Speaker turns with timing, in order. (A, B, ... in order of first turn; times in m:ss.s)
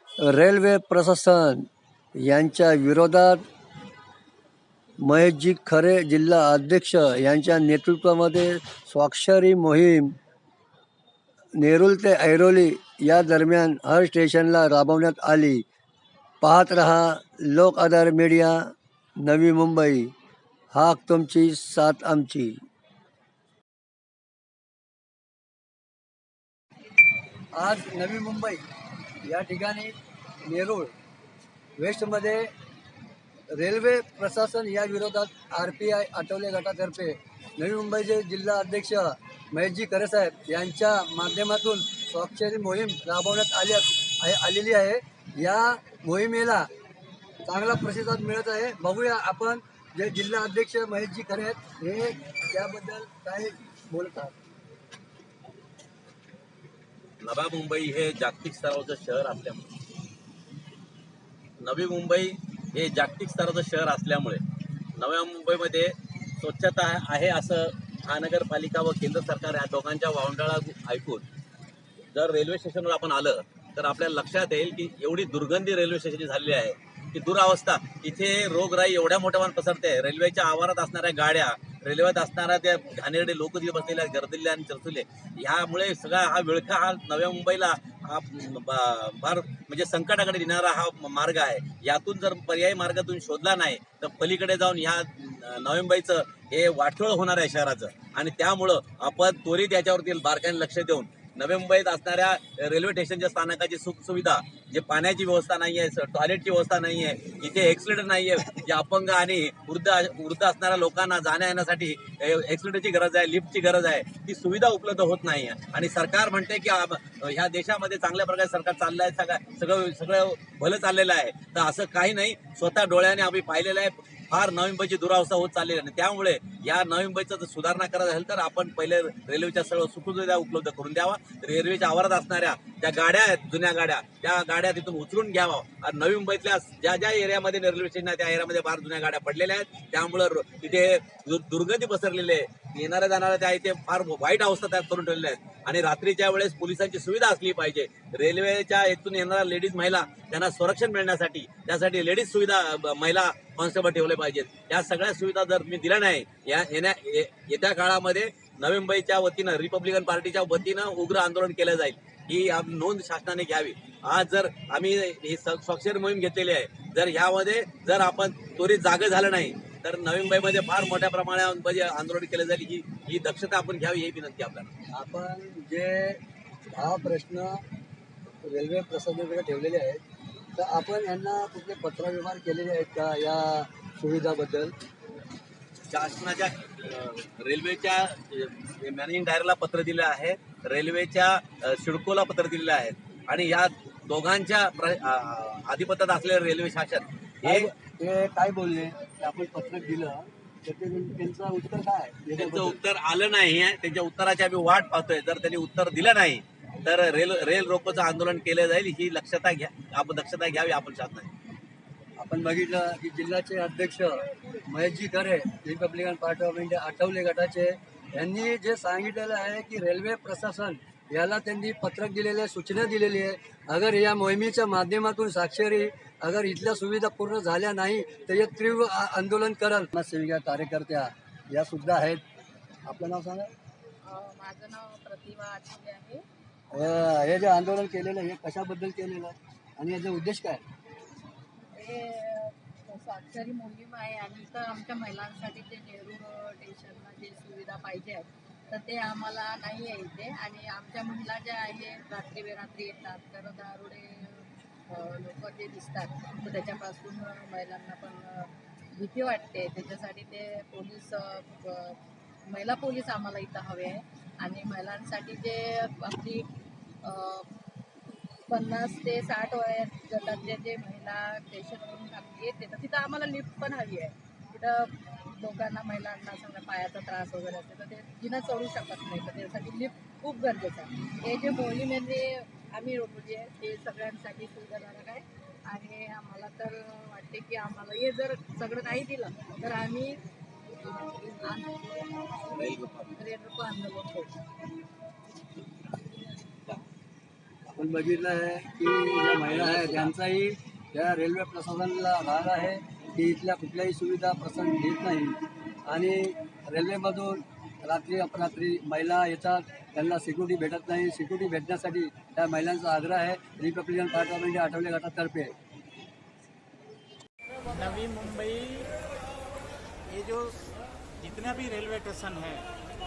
0:00.2-0:03.4 A
0:05.0-0:10.1 A
0:11.6-0:15.6 A
0:16.4-0:20.1 A
0:20.7-0:22.6 A
0:27.5-0:28.6 A
0:29.2-0:30.0 A
0:30.5-0:30.9 A
0:31.8-0:32.5 A
0:33.5-0:46.7 A
0:47.4-0:54.4 A
0:57.2-0:59.6 B
1:01.6-1:04.4 B
1:05.0-1:11.2 B
1:12.1-2:54.7 B
2:54.9-2:56.2 A
2:56.8-2:57.6 A
2:58.4-3:00.0 A
3:00.5-3:04.7 A
3:05.9-3:17.7 B
3:17.4-3:22.8 A
3:22.4-3:31.3 B
3:32.2-3:52.2 A
3:52.8-3:53.5 A
3:54.0-3:56.2 C
3:56.7-4:00.6 A
4:01.8-4:22.0 C
4:22.5-4:26.5 C
4:27.0-4:27.5 C
4:28.5-4:50.2 C
4:50.8-4:52.1 C
4:52.5-4:53.2 B
4:53.2-4:54.3 C
4:57.7-5:15.5 A
4:59.5-5:00.1 B
5:17.7-5:19.0 D
5:20.1-5:20.6 D
5:21.2-5:22.7 D